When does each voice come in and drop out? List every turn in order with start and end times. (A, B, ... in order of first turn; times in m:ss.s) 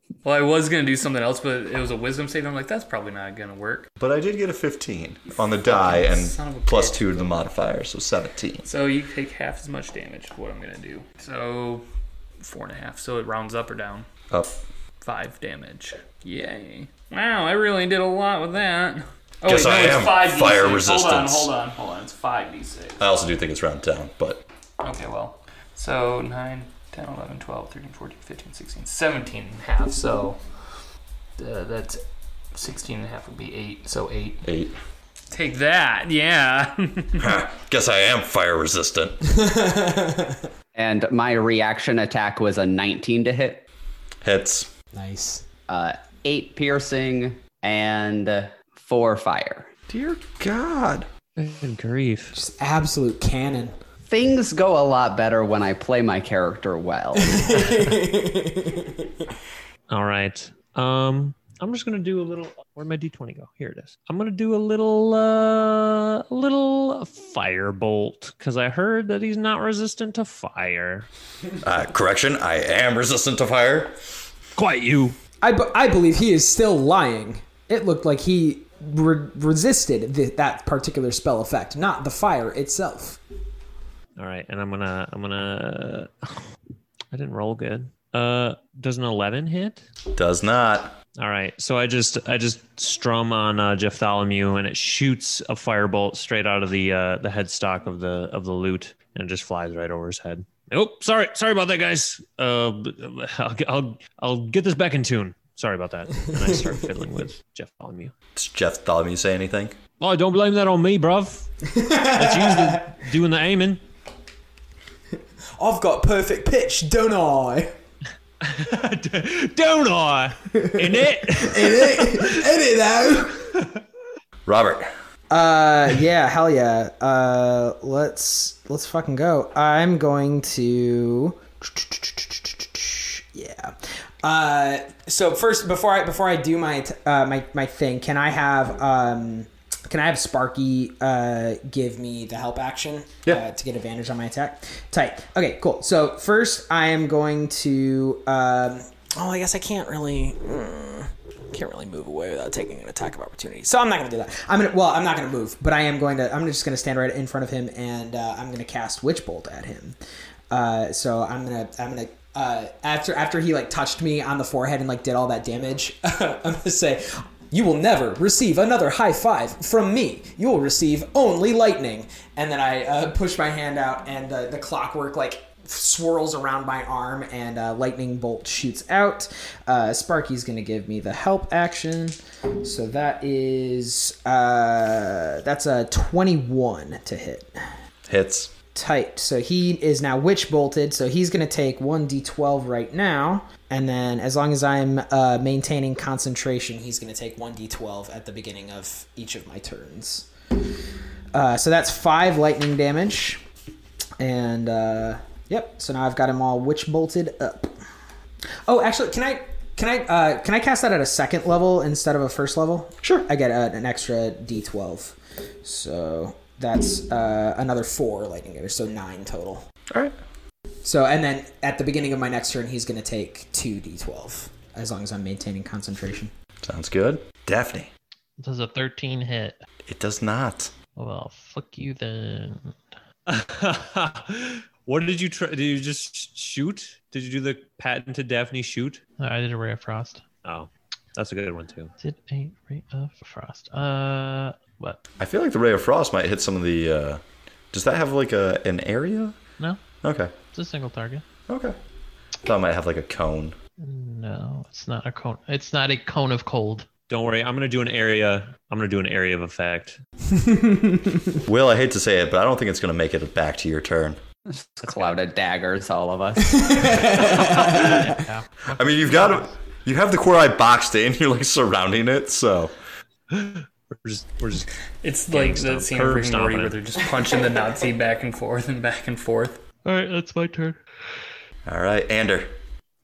0:00.2-0:03.9 A
0:04.0-0:08.7 B
0:05.6-0:07.5 A
0:08.6-0:11.8 A
0:12.4-0:14.0 A
0:14.3-0:14.6 B
0:15.0-0:23.0 A
0:19.4-0:21.5 B
0:23.0-0:24.4 B
0:24.8-0:30.6 A
0:31.4-0:32.0 A
0:32.5-0:34.4 A
0:34.4-0:34.7 B
0:35.3-0:37.3 A
0:37.2-0:39.2 B
0:39.3-0:40.4 C
0:40.7-0:43.6 D
0:44.2-0:44.7 B
0:44.9-0:45.4 C
0:45.7-0:49.7 D
0:49.9-0:51.1 B
0:51.4-0:52.4 E
0:52.3-0:53.8 C
0:54.1-0:57.6 D
0:57.2-0:59.1 C
0:59.9-1:11.1 E
1:11.6-1:14.0 B
1:14.6-1:15.2 E
1:15.4-1:23.2 C
1:24.2-1:26.4 E
1:27.1-1:29.8 E
1:30.1-1:31.0 B
1:31.2-1:48.1 E
1:48.3-1:49.8 B
1:50.0-1:53.8 E
1:51.7-1:52.9 C
1:55.6-1:57.7 C
1:58.4-2:02.4 E
2:01.2-2:03.5 C
2:04.4-2:04.9 B
2:05.3-2:40.0 C
2:40.5-3:07.6 C
3:08.1-3:08.5 B
3:08.7-3:20.3 C
3:21.3-3:23.4 C
3:24.2-3:27.7 C
3:28.6-3:39.6 C
3:33.0-3:33.3 B
3:40.8-3:46.3 C
3:46.6-3:47.9 B
3:48.4-3:49.6 F
3:49.9-3:50.7 B
3:51.0-3:52.8 F
3:53.3-3:59.0 E
3:59.2-4:00.2 F
4:00.4-4:01.9 E
4:02.0-4:05.0 F
4:05.2-4:09.4 B
4:10.0-4:10.3 B
4:10.5-4:11.2 F
4:11.5-4:11.8 B
4:12.4-4:13.6 B
4:13.8-4:16.9 F
4:17.1-4:20.0 E
4:20.3-4:21.4 C
4:21.4-4:24.2 B
4:24.4-4:27.1 D
4:24.8-4:25.2 E
4:26.5-4:28.2 C
4:27.2-4:29.5 F
4:28.7-4:32.7 B
4:33.3-4:34.7 E
4:35.0-4:39.6 A
4:35.3-4:36.8 E
4:39.8-4:40.8 F
4:41.6-4:42.5 B